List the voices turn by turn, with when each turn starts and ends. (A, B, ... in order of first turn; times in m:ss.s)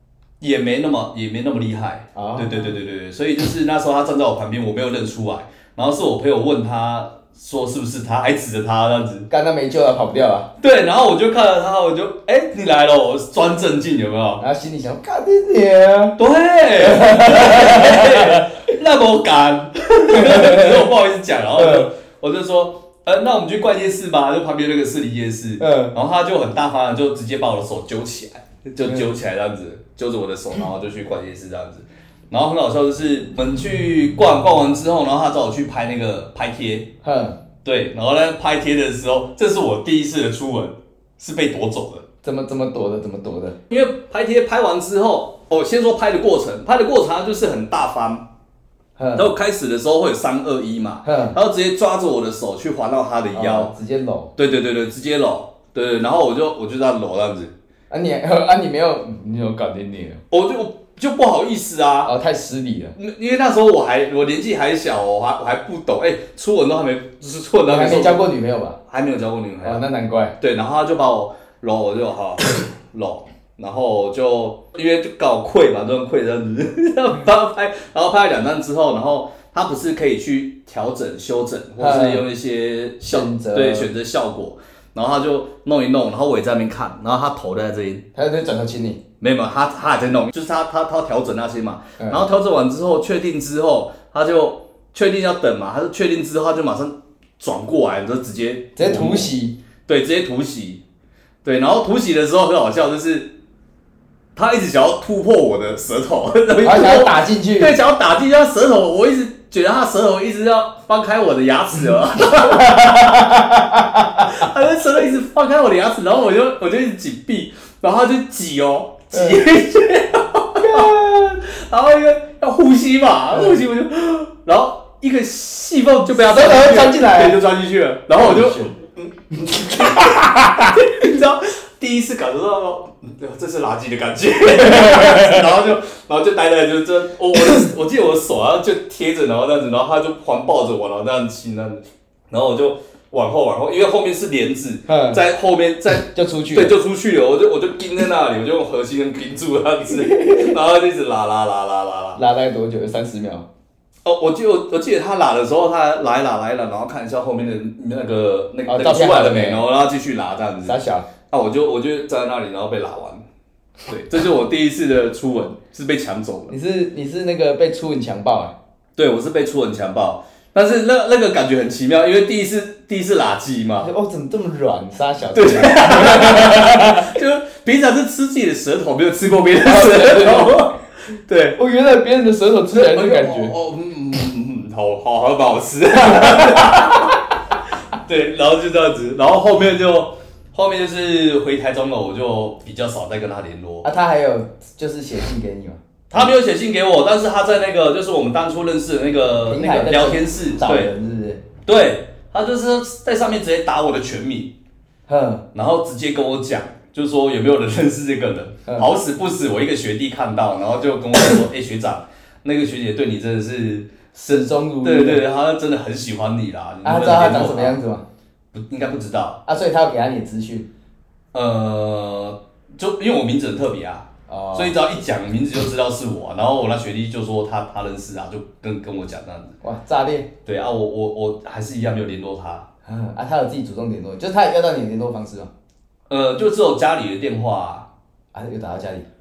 0:00.4-0:09.3 A
0:02.2-0:02.8 B
0:09.3-0:10.5 B
0:10.6-0:14.4 A
0:14.4-0:16.2 B
0:16.2-0:36.9 A
0:16.8-0:18.5 B
0:20.1-0:20.9 B
0:21.6-0:21.9 B
0:25.6-0:26.0 B
0:28.8-0:29.1 B
0:37.0-0:37.4 B
0:37.6-0:42.0 A
0:42.2-0:43.6 B
0:43.7-0:48.3 A
0:49.0-0:49.3 B
0:49.2-0:53.7 A
0:51.0-0:51.4 B
0:53.3-0:54.3 B
0:54.4-0:57.5 A
0:57.9-1:00.2 B
1:00.3-1:02.1 A
1:02.1-1:03.0 B
1:03.0-1:08.2 A
1:07.7-1:08.8 B
1:08.9-1:09.8 A
1:09.6-1:10.4 B
1:10.4-1:28.0 A
1:21.8-1:22.3 B
1:23.0-1:23.9 B
1:28.2-1:29.0 B
1:29.2-1:39.3 A
1:32.0-1:32.2 B
1:38.8-1:39.6 B
1:39.9-1:40.8 A
1:41.4-1:43.3 A
1:44.4-1:53.3 A
1:46.6-1:47.8 B
1:52.4-1:54.5 B
1:54.2-2:32.2 A
1:59.1-1:59.4 B
2:00.6-2:01.4 B
2:06.1-2:07.4 B
2:08.2-2:08.7 B
2:09.5-2:10.8 B
2:14.6-2:15.4 B
2:24.9-2:25.2 B
2:26.1-2:26.8 B
2:30.0-2:30.5 B
2:32.2-2:33.5 B
2:34.0-2:40.8 A
2:38.7-2:39.7 B
2:40.6-2:41.1 B
2:41.3-2:43.2 A
2:43.9-2:46.5 A
2:46.5-2:48.6 B
2:49.0-2:53.9 A
2:53.8-2:57.1 B
2:55.3-3:01.6 A
2:59.6-3:00.7 B
3:01.6-3:03.5 B
3:02.7-3:07.2 A
3:06.0-3:07.0 B
3:08.0-3:13.9 A
3:13.8-3:16.3 B
3:16.1-3:20.9 A
3:19.5-3:21.4 B
3:21.6-3:24.6 A
3:25.1-3:25.4 B
3:25.5-3:37.8 A
3:34.1-3:35.2 B
3:36.8-3:38.0 B
3:38.5-3:39.4 A
3:39.5-3:40.7 B
3:41.3-3:49.6 A
3:44.3-3:44.8 B
3:49.6-3:50.3 B
3:50.4-3:52.7 A
3:52.8-3:55.5 B
3:56.1-3:57.9 A
3:58.3-3:59.1 B